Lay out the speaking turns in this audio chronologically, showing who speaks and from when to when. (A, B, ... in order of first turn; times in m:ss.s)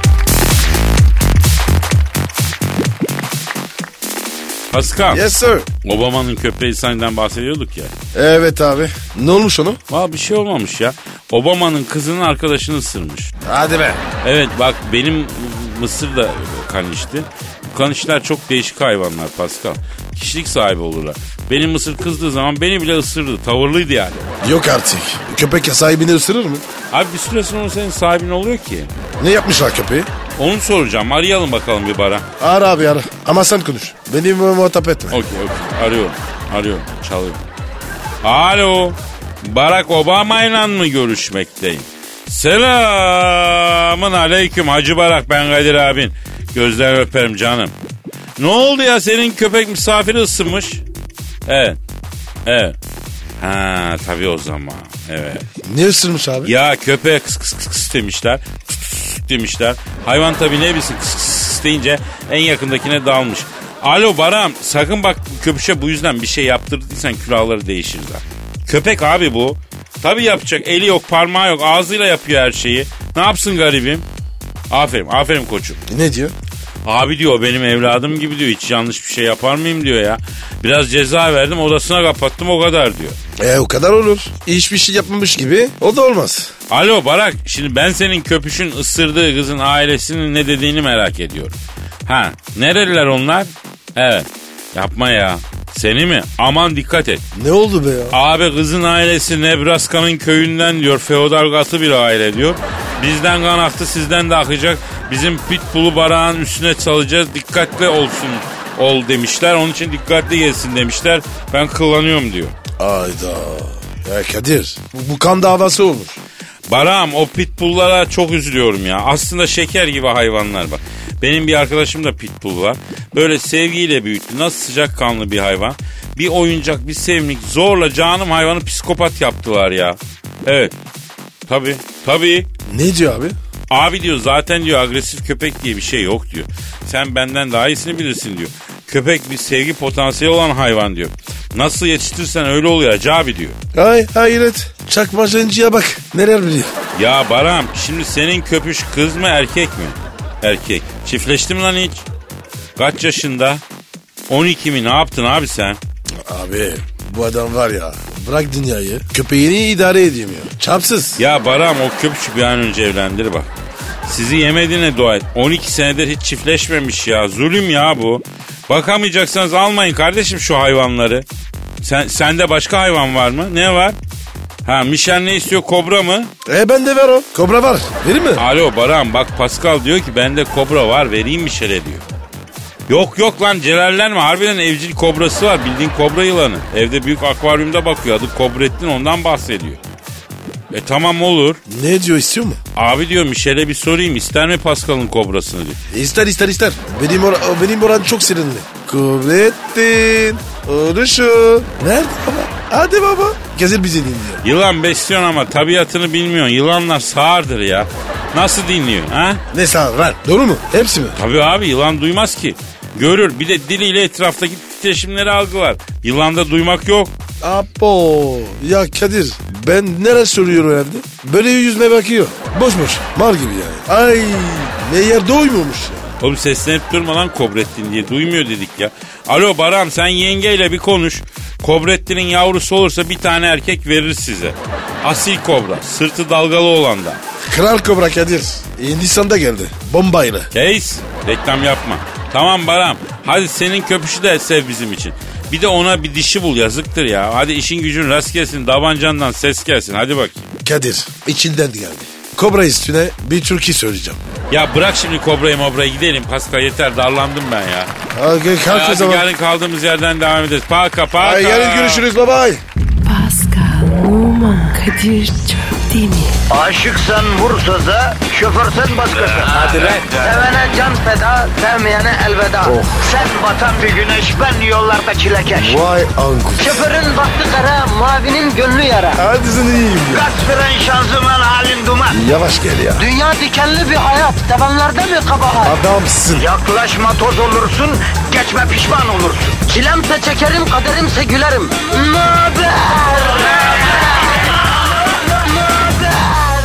0:04.7-0:05.3 A
0:05.1-0:05.7 B
0:05.8-0:07.9 A
0:08.1-0:09.8 B
0:09.9-0:13.3 A
0:13.4-0:14.0 B
0:14.2-0:24.3 A
0:24.4-0:26.6 B
0:26.9-0:28.9 A
0:29.2-0:30.1 B
0:30.4-0:32.2 A
0:32.4-0:35.2 B
0:35.1-0:37.4 A
0:38.2-0:47.7 A
0:48.4-0:50.8 A
0:51.4-0:51.8 A
0:52.4-0:52.8 A
0:53.4-0:55.4 A
0:55.6-0:56.5 B
0:56.4-1:14.0 A
1:14.7-1:15.8 A
1:15.9-1:16.3 B
1:16.8-1:23.2 A
1:23.4-1:26.5 B
1:26.7-1:37.2 A
1:37.4-1:38.2 B
1:38.1-1:52.5 A
1:52.8-1:56.2 B
1:56.7-2:10.7 A
2:11.5-2:12.5 A
2:12.7-2:13.4 B
2:13.7-2:23.6 A
2:23.7-2:26.7 B
2:26.9-2:32.0 A
2:32.8-2:33.6 A
2:34.3-2:35.8 A
2:36.2-2:41.2 B
2:41.2-2:43.5 A
2:44.0-2:51.2 A
2:51.8-2:54.0 A
2:54.6-2:56.3 A
2:56.4-2:58.4 B
2:58.4-3:02.0 A
3:02.9-3:09.8 A
3:10.7-3:11.6 A
3:11.7-3:12.6 B
3:12.8-3:15.8 A
3:15.9-3:24.4 B
3:24.4-3:29.4 A
3:29.5-3:31.2 B
3:31.2-3:37.1 A
3:37.4-3:46.1 B
3:46.2-3:57.2 A
3:57.4-4:00.5 B
4:00.5-4:10.5 A
4:10.6-4:14.2 B
4:14.5-4:17.9 A
4:18.1-4:19.2 B
4:18.7-4:22.0 A
4:21.2-4:22.6 B
4:23.0-4:26.4 C
4:26.5-4:35.9 D
4:30.0-4:30.4 B
4:32.6-4:33.1 B
4:35.5-4:36.9 B
4:36.6-4:39.2 D
4:39.2-4:40.3 B
4:40.1-4:42.2 D
4:42.1-4:43.1 B
4:43.0-4:45.8 D
4:45.6-4:46.5 B
4:46.4-4:54.3 D
4:55.3-4:56.4 D